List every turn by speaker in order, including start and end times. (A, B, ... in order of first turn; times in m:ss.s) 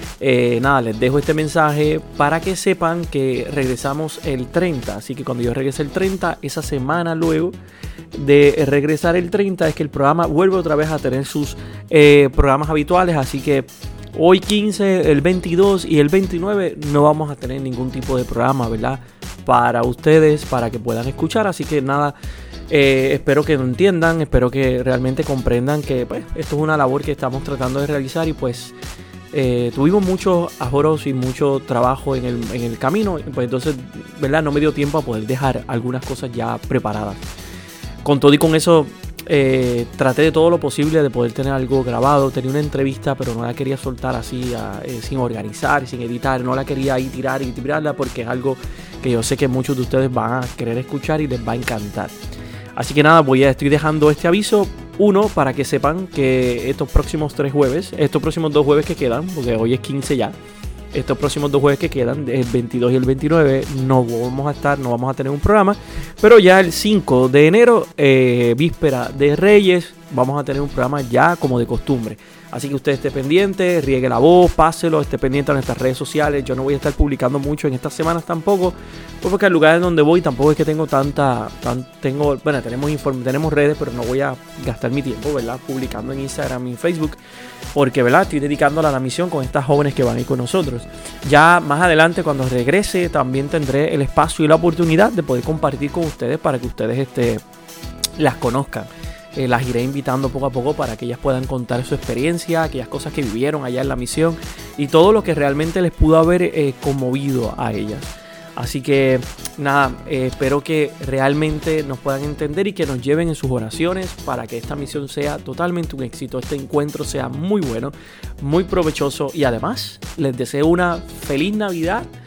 0:00.2-0:07.6 A
0:08.1-0:22.2 A
0:22.7-0:28.8 A
0:29.3-0:37.2 A
0:38.0-0:52.2 A
0:52.8-1:00.4 A
1:00.9-1:27.2 A
1:27.7-1:37.4 A
1:38.2-2:02.1 A